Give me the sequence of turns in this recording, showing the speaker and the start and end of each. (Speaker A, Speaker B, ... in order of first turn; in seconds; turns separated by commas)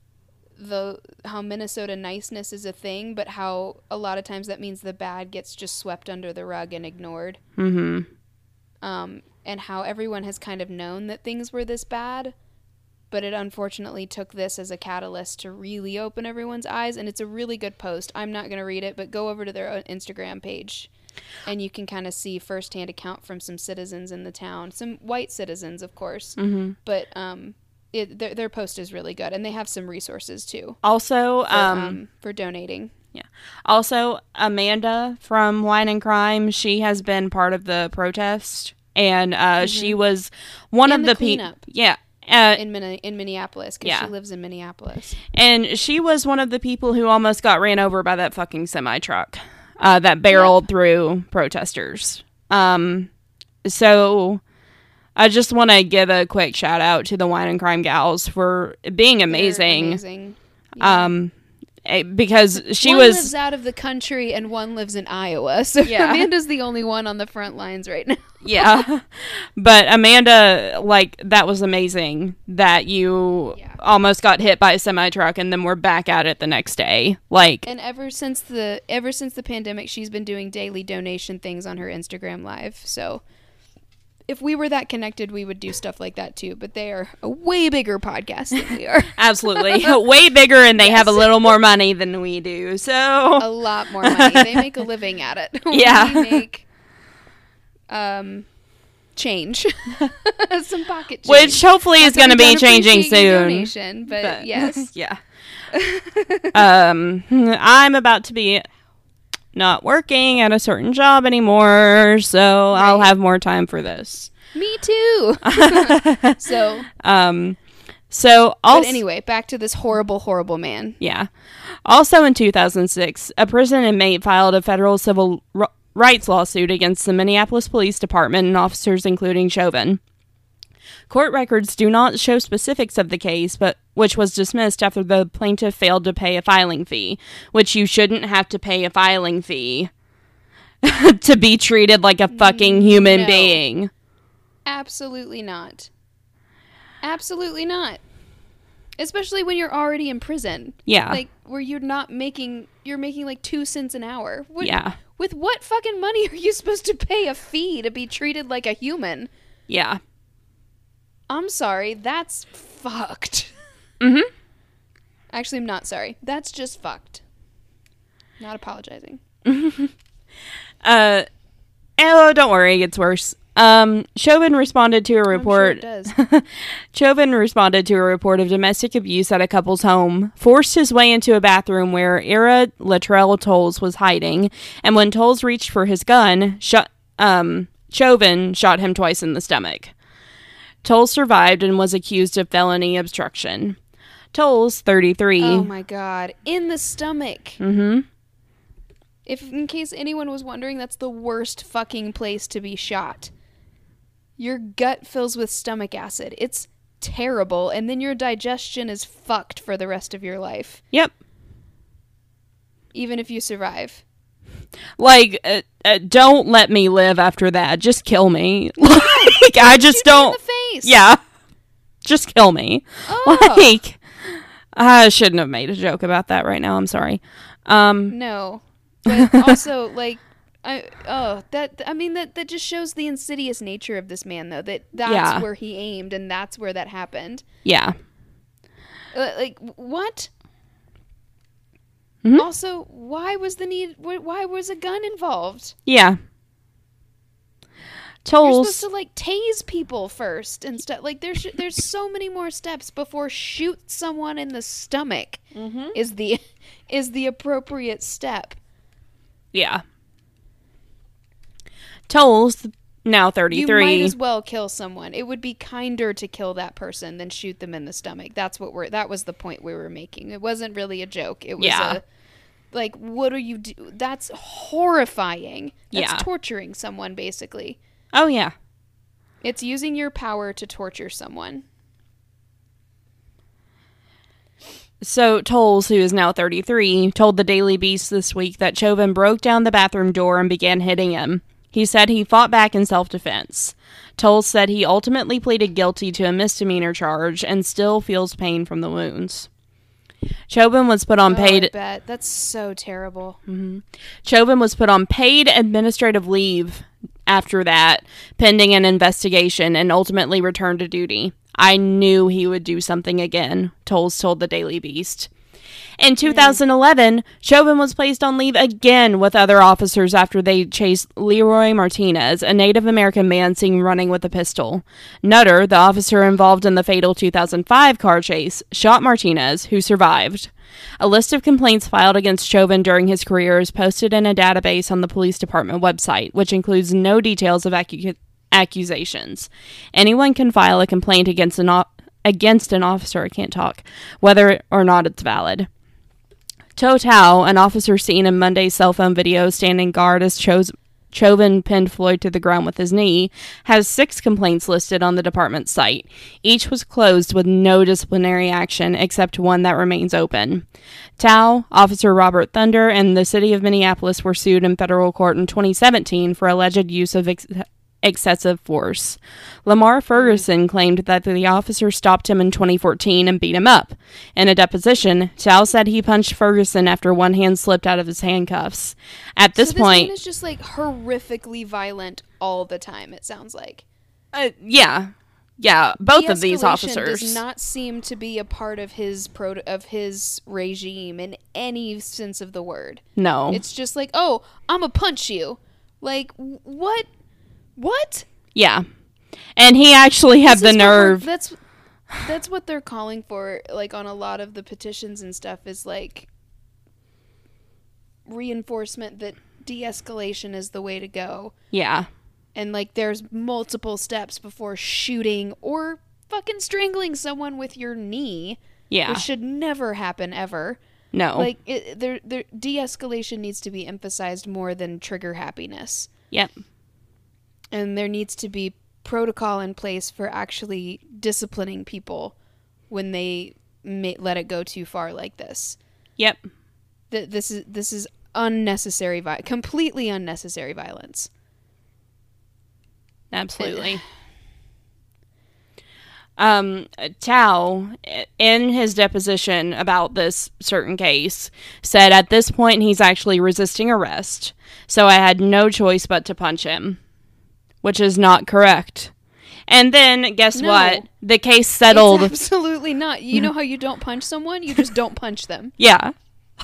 Speaker A: 0.6-7.4, Speaker B: 7.6-8.1, Speaker A: 8.8-12.3, Speaker A: 13.1-20.9, Speaker A: 21.4-30.8, Speaker B: 26.4-26.8, Speaker B: 30.8-32.0, Speaker A: 31.5-32.9, Speaker B: 33.1-42.6, Speaker A: 39.6-40.0, Speaker A: 40.9-41.6, Speaker A: 42.5-45.2, Speaker B: 43.8-44.1, Speaker B: 45.3-53.1, Speaker A: 50.3-50.7, Speaker B: 53.6-54.4, Speaker B: 55.1-60.0, Speaker A: 59.3-61.1, Speaker B: 60.8-61.3, Speaker B: 61.8-63.3, Speaker A: 62.6-68.8, Speaker B: 65.8-66.3, Speaker B: 68.4-77.7, Speaker A: 77.7-83.2, Speaker A: 84.3-90.0, Speaker B: 89.2-93.5, Speaker A: 90.8-91.5, Speaker A: 93.4-96.6, Speaker B: 94.0-94.7, Speaker B: 95.7-96.4, Speaker A: 97.9-98.5, Speaker A: 99.2-104.9, Speaker B: 101.2-105.2, Speaker A: 105.7-106.6, Speaker B: 106.5-108.6, Speaker B: 109.5-114.3, Speaker A: 112.7-113.1, Speaker A: 114.5-116.9, Speaker B: 115.5-116.4, Speaker B: 116.9-117.6, Speaker B: 118.1-119.0, Speaker A: 118.7-121.0, Speaker B: 121.0-121.3, Speaker B: 121.8-130.0, Speaker B: 131.1-139.9, Speaker B: 140.8-143.9, Speaker A: 142.3-143.6, Speaker A: 144.7-145.9, Speaker A: 147.0-148.0, Speaker A: 149.0-159.3, Speaker B: 150.9-151.2, Speaker B: 154.6-155.0, Speaker B: 159.7-160.0, Speaker A: 161.3-163.5, Speaker B: 164.0-164.3, Speaker A: 165.3-167.2, Speaker A: 168.4-169.2, Speaker B: 169.4-169.9, Speaker B: 170.8-171.2, Speaker B: 172.0-189.9, Speaker A: 175.3-176.1, Speaker B: 190.8-193.8, Speaker B: 194.3-195.7, Speaker A: 195.4-197.6, Speaker B: 197.6-198.1, Speaker A: 199.2-203.3, Speaker A: 204.4-210.8, Speaker A: 212.9-214.0, Speaker B: 215.0-221.2, Speaker A: 218.8-220.9, Speaker B: 222.0-228.1, Speaker A: 223.1-223.7, Speaker A: 228.1-237.4, Speaker B: 229.2-229.6, Speaker B: 235.1-235.4, Speaker B: 237.6-237.9, Speaker A: 239.1-240.3, Speaker A: 242.3-245.8, Speaker B: 245.8-246.2, Speaker B: 248.2-248.8, Speaker A: 248.4-255.4, Speaker B: 255.5-255.9, Speaker A: 255.9-258.6, Speaker B: 259.5-259.8, Speaker B: 262.1-264.1, Speaker A: 263.5-272.0, Speaker B: 271.6-272.0, Speaker A: 272.7-277.8, Speaker B: 275.9-276.2, Speaker B: 278.1-278.5, Speaker A: 279.4-281.6, Speaker B: 285.0-299.5, Speaker B: 300.5-301.7, Speaker A: 301.2-303.4, Speaker B: 303.5-315.3, Speaker B: 316.0-345.7, Speaker A: 316.2-316.6, Speaker B: 346.8-360.6, Speaker B: 361.2-380.1, Speaker A: 370.1-370.4, Speaker A: 379.6-383.8, Speaker B: 384.3-387.4, Speaker A: 386.0-397.1, Speaker B: 393.2-393.6, Speaker A: 397.8-398.2, Speaker B: 398.5-398.8, Speaker B: 399.6-401.2, Speaker A: 400.4-401.6, Speaker A: 402.1-406.3, Speaker A: 408.2-411.5, Speaker B: 411.7-412.1, Speaker A: 412.5-420.8, Speaker B: 418.9-419.2, Speaker B: 421.1-421.5, Speaker A: 421.3-426.1, Speaker A: 427.7-432.3, Speaker A: 432.9-435.8, Speaker A: 437.1-441.3, Speaker B: 443.3-444.0, Speaker A: 443.6-444.0, Speaker B: 446.4-457.0, Speaker B: 457.8-459.1, Speaker B: 459.7-462.3, Speaker A: 460.5-461.1, Speaker A: 461.9-465.7, Speaker B: 465.8-466.1